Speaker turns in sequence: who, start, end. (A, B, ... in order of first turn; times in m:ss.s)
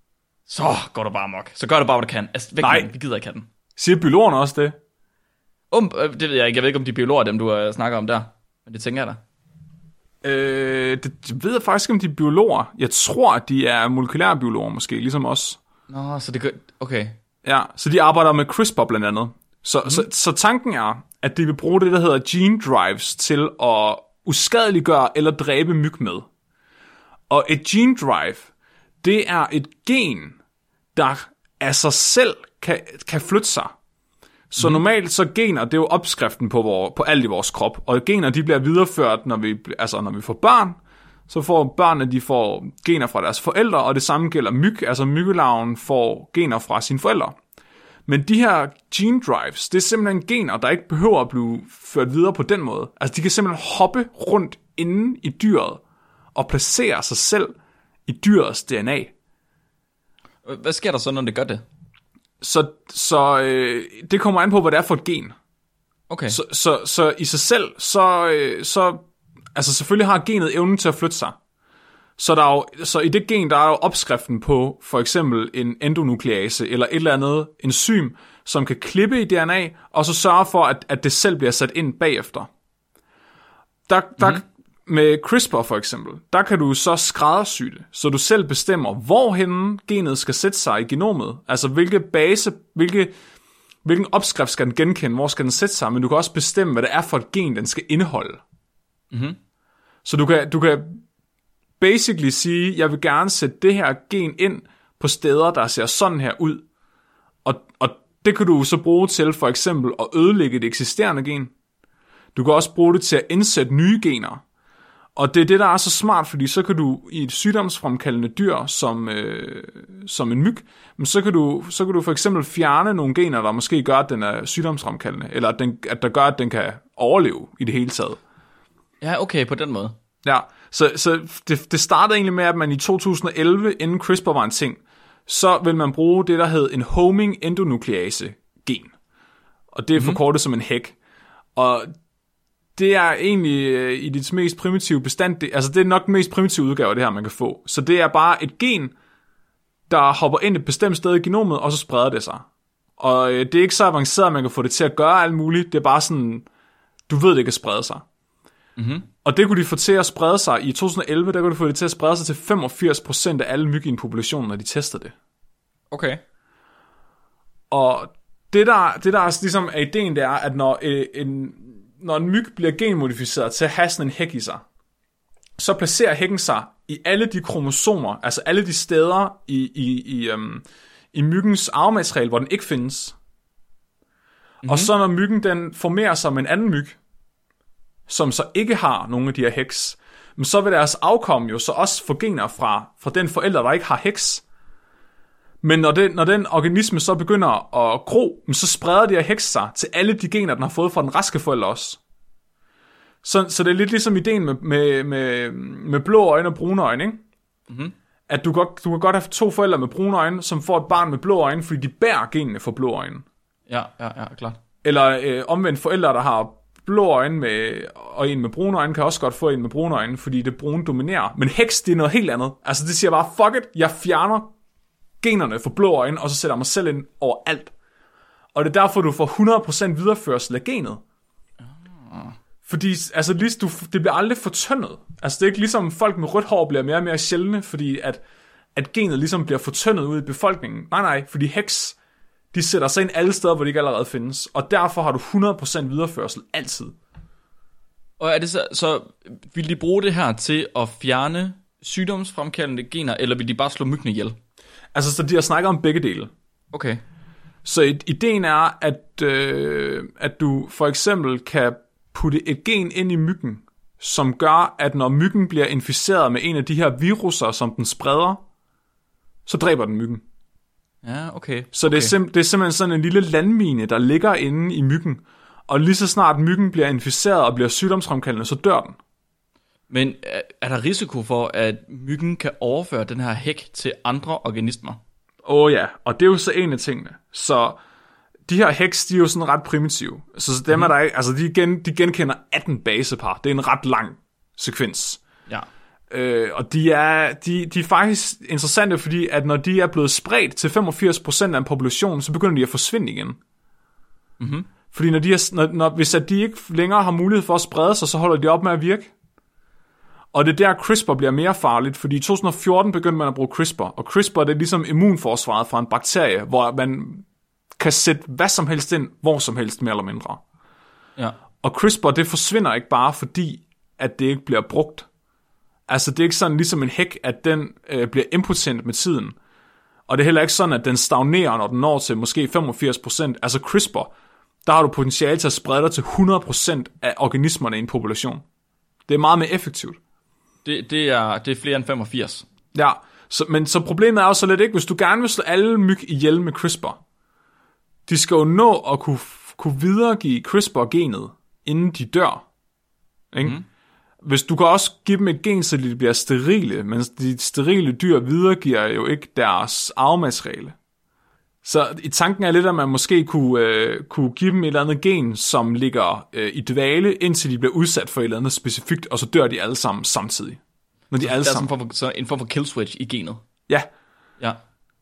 0:00.5-0:03.5 A
0:02.6-0:02.9 B
0:03.8-0:04.8 B
0:05.7-0:09.2 A
0:10.2-0:15.6 B
0:15.9-0:17.2 A
0:17.4-0:26.3 B
0:27.3-0:28.5 B
0:29.0-0:30.4 B
0:31.0-0:33.7 B
0:34.5-0:40.8 B
0:41.3-0:47.4 B
0:48.1-0:55.8 B
0:56.4-0:57.5 B
0:58.1-0:59.1 B
1:00.4-1:01.6 A
1:02.4-1:05.4 B
1:06.1-1:06.4 A
1:06.3-1:09.0 B
1:09.6-1:11.4 B
1:12.2-1:22.5 B
1:23.9-1:33.1 B
1:33.8-1:38.4 B
1:39.1-1:39.4 A
1:40.0-1:41.0 B
1:41.8-1:46.6 B
1:47.4-1:51.5 B
1:52.4-1:54.4 B
1:55.2-2:08.2 B
2:09.0-2:10.0 A
2:10.2-2:18.9 B
2:19.8-2:21.0 B
2:20.0-2:20.2 A
2:21.6-2:21.9 B
2:22.8-2:28.9 B
2:29.9-2:32.4 B
2:33.0-2:36.5 B
2:37.1-2:38.0 B
2:38.8-2:39.1 A
2:39.2-2:45.1 B
2:45.9-2:46.2 A
2:47.7-2:54.6 B
2:55.6-3:03.2 B
3:04.6-3:04.9 A
3:04.7-3:07.0 B
3:08.1-3:14.4 B
3:15.6-3:22.0 B
3:23.2-3:27.2 B
3:27.7-3:27.9 A
3:28.3-3:33.2 B
3:33.7-3:34.6 A
3:34.8-3:44.5 B
3:45.2-3:47.7 B
3:48.6-3:51.0 B
3:51.7-3:52.4 A
3:52.7-3:58.2 B
3:58.8-4:02.0 B
4:02.5-4:06.9 B
4:08.2-4:14.4 A
4:14.9-4:16.3 B
4:16.7-4:17.0 A
4:17.6-4:28.4 B
4:29.5-4:30.2 B
4:31.0-4:32.2 A
4:31.7-4:39.0 B
4:39.9-4:45.0 A
4:45.4-4:47.8 B
4:48.5-4:55.2 B
4:56.1-5:03.4 B
5:04.4-5:04.7 A
5:04.9-5:09.1 B
5:10.3-5:17.2 B
5:17.8-5:20.4 B
5:21.6-5:25.1 B
5:25.9-5:29.4 B
5:30.1-5:34.1 B
5:34.6-5:38.4 B
5:39.1-5:40.0 B
5:40.6-5:42.5 A
5:42.7-5:47.0 B
5:48.1-5:52.4 B
5:53.3-5:53.6 B
5:54.2-6:00.7 B
6:01.6-6:10.6 B
6:11.1-6:11.7 B
6:11.2-6:13.4 A